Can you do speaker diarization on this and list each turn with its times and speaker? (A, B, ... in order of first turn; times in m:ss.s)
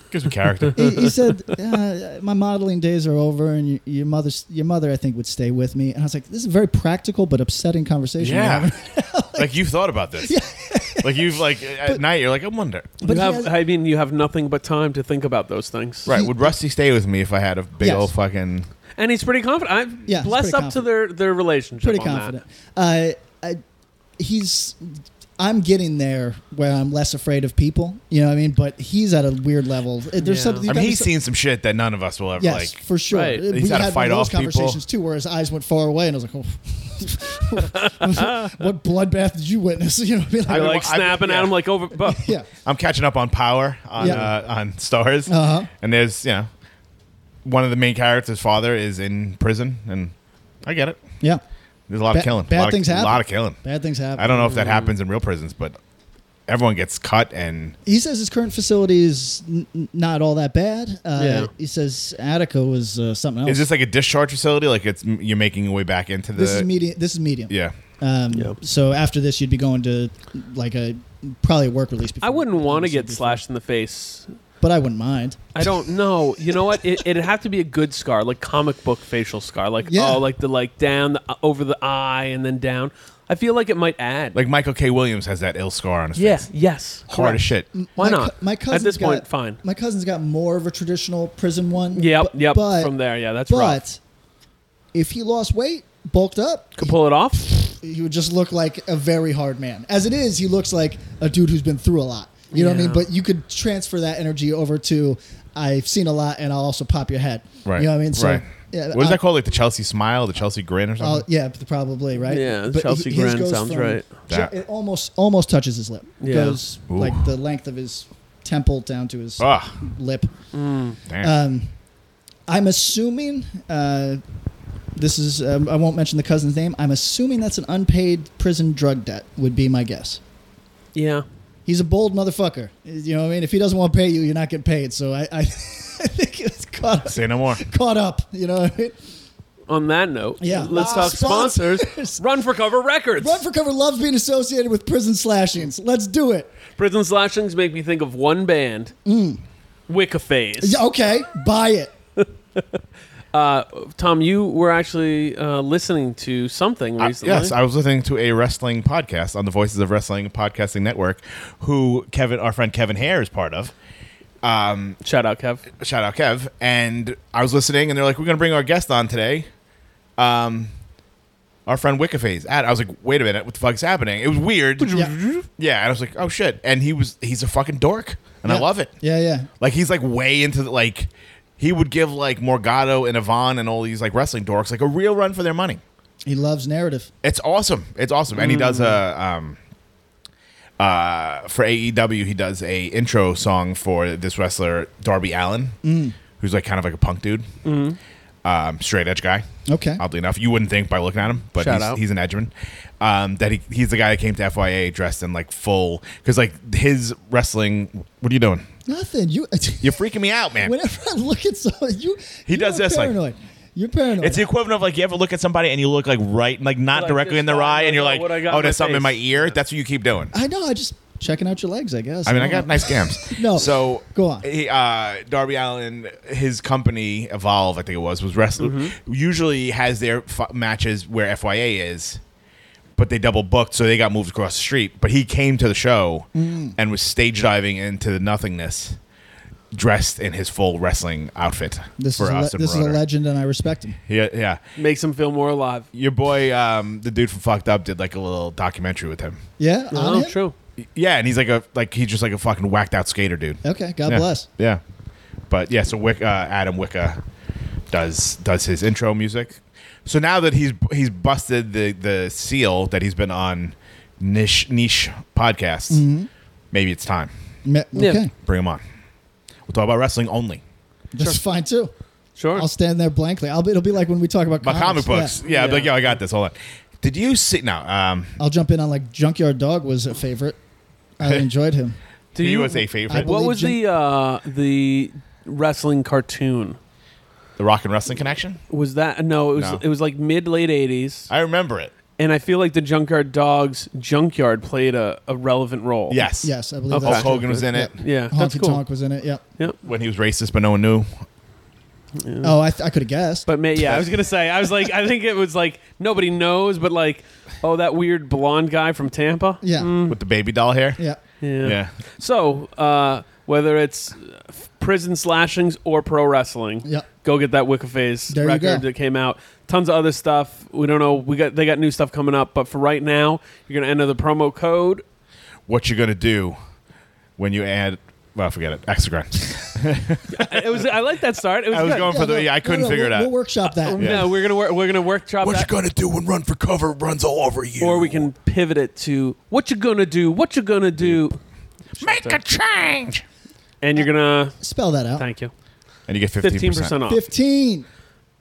0:00.1-0:01.1 A
0:00.7-0:09.5 B
0:08.2-0:08.7 A
0:09.3-0:10.4 A
0:10.2-0:12.0 B
0:11.0-0:12.9 A
0:13.0-0:13.5 B
0:13.0-0:16.1 C
0:16.0-0:18.7 A
0:16.1-0:16.5 B
0:17.8-0:18.1 B
0:19.0-0:22.4 C
0:20.1-0:20.8 B
0:21.8-0:23.6 B
0:24.2-0:31.1 B
0:30.2-0:30.7 C
0:30.7-0:32.8 A
0:32.4-0:40.9 B
0:33.1-0:33.4 C
0:33.5-0:34.8 A
0:37.7-0:38.6 C
0:40.5-0:42.3 C
0:40.5-0:41.5 A
0:42.0-0:42.5 B
0:42.6-0:46.5 A
0:44.0-0:44.3 B
0:44.0-0:44.3 C
0:45.2-0:45.7 B
0:47.4-0:50.1 A
0:50.6-0:51.0 A
0:51.9-0:53.6 A
0:52.1-0:54.5 B
0:54.2-0:55.8 A
0:54.4-0:54.9 C
0:56.5-0:57.8 A
0:57.8-1:03.6 B
1:01.2-1:01.5 C
1:03.4-1:06.7 A
1:06.3-1:13.4 B
1:07.5-1:07.7 A
1:08.3-1:08.6 C
1:12.2-1:14.3 C
1:14.6-1:15.6 B
1:15.5-1:24.4 C
1:19.8-1:20.2 B
1:24.3-1:26.5 A
1:26.2-1:27.1 C
1:27.1-1:27.7 A
1:27.1-1:32.9 B
1:28.0-1:29.6 C
1:31.9-1:33.8 C
1:33.4-1:34.0 B
1:34.9-1:49.2 B
1:36.8-1:37.5 C
1:42.5-1:43.0 C
1:47.6-1:51.2 A
1:51.0-2:00.3 B
1:52.3-1:54.1 C
1:56.2-1:56.6 C
1:56.9-1:57.3 A
1:59.4-1:59.8 A
2:00.5-2:01.0 C
2:01.1-2:01.3 A
2:01.2-2:01.7 B
2:02.5-2:04.2 B
2:04.9-2:10.2 B
2:10.9-2:11.2 C
2:11.6-2:19.0 B
2:17.1-2:17.6 A
2:19.7-2:23.4 C
2:20.4-2:22.2 B
2:23.2-2:26.5 B
2:26.8-2:28.9 C
2:29.0-2:29.4 B
2:29.9-2:30.8 C
2:30.6-2:31.9 B
2:32.2-2:32.6 C
2:33.3-2:37.5 C
2:37.0-2:43.7 A
2:44.4-2:45.0 A
2:45.0-2:45.6 C
2:45.8-2:49.5 A
2:50.2-2:50.7 A
2:51.6-2:55.0 A
2:54.8-2:55.4 C
2:55.6-2:58.9 A
2:58.4-2:59.5 B
2:59.6-3:05.8 A
3:06.2-3:07.1 B
3:07.2-3:09.6 A
3:08.3-3:09.0 C
3:10.8-3:15.8 A
3:15.8-3:16.2 B
3:16.4-3:17.5 A
3:17.6-3:18.0 C
3:18.4-3:19.4 A
3:19.7-3:20.0 B
3:20.0-3:28.6 A
3:21.6-3:22.0 C
3:28.8-3:30.0 B
3:29.8-3:30.7 A
3:30.6-3:34.5 B
3:32.5-3:33.2 A
3:34.2-3:40.3 A
3:36.9-3:39.6 C
3:40.3-3:44.4 B
3:42.2-3:52.2 A
3:48.6-3:48.9 C
3:53.0-3:59.0 A
3:56.3-3:56.8 B
3:59.7-4:03.0 A
4:02.0-4:04.0 B
4:04.1-4:04.6 A
4:04.8-4:05.9 C
4:05.9-4:09.4 A
4:09.6-4:10.4 B
4:09.9-4:10.5 C
4:10.9-4:14.8 A
4:13.6-4:14.5 B
4:15.5-4:17.2 A
4:17.9-4:26.0 A
4:25.9-4:26.3 B
4:26.7-4:27.3 A
4:27.6-4:28.3 B
4:27.9-4:28.2 C
4:28.4-4:28.8 A
4:29.7-4:30.6 A
4:31.1-4:31.9 B
4:32.4-4:32.7 C
4:32.5-4:35.4 B
4:34.6-4:38.4 A
4:35.4-4:36.1 C
4:38.4-4:40.6 B
4:41.2-4:42.0 B
4:41.2-4:41.5 A
4:42.4-4:43.3 A
4:42.4-4:46.8 C
4:43.1-4:43.8 B
4:47.6-4:48.6 A
4:48.7-4:51.3 C
4:49.5-4:49.8 A
4:51.3-4:51.9 A
4:52.2-4:56.2 C
4:56.1-4:58.0 A
4:56.4-4:59.4 B
4:56.9-4:58.8 C
4:59.8-5:01.2 A
5:02.2-5:02.5 C
5:02.4-5:03.5 B
5:03.4-5:10.1 C
5:09.6-5:09.9 B
5:10.1-5:11.0 A
5:11.4-5:25.0 C
5:11.6-5:11.9 A
5:18.3-5:18.8 B
5:25.7-5:26.6 A
5:27.4-5:30.9 A
5:30.3-5:32.1 C
5:31.7-5:33.3 A
5:31.8-5:34.2 B
5:33.8-5:35.7 C
5:34.0-5:34.4 A
5:35.4-5:38.3 A
5:37.8-5:41.4 C
5:42.0-5:42.4 C
5:42.0-5:43.2 A
5:43.8-5:44.6 C
5:44.6-5:45.3 B
5:45.2-5:45.5 C
5:46.1-5:47.0 A
5:46.4-5:47.2 C
5:47.0-5:47.8 B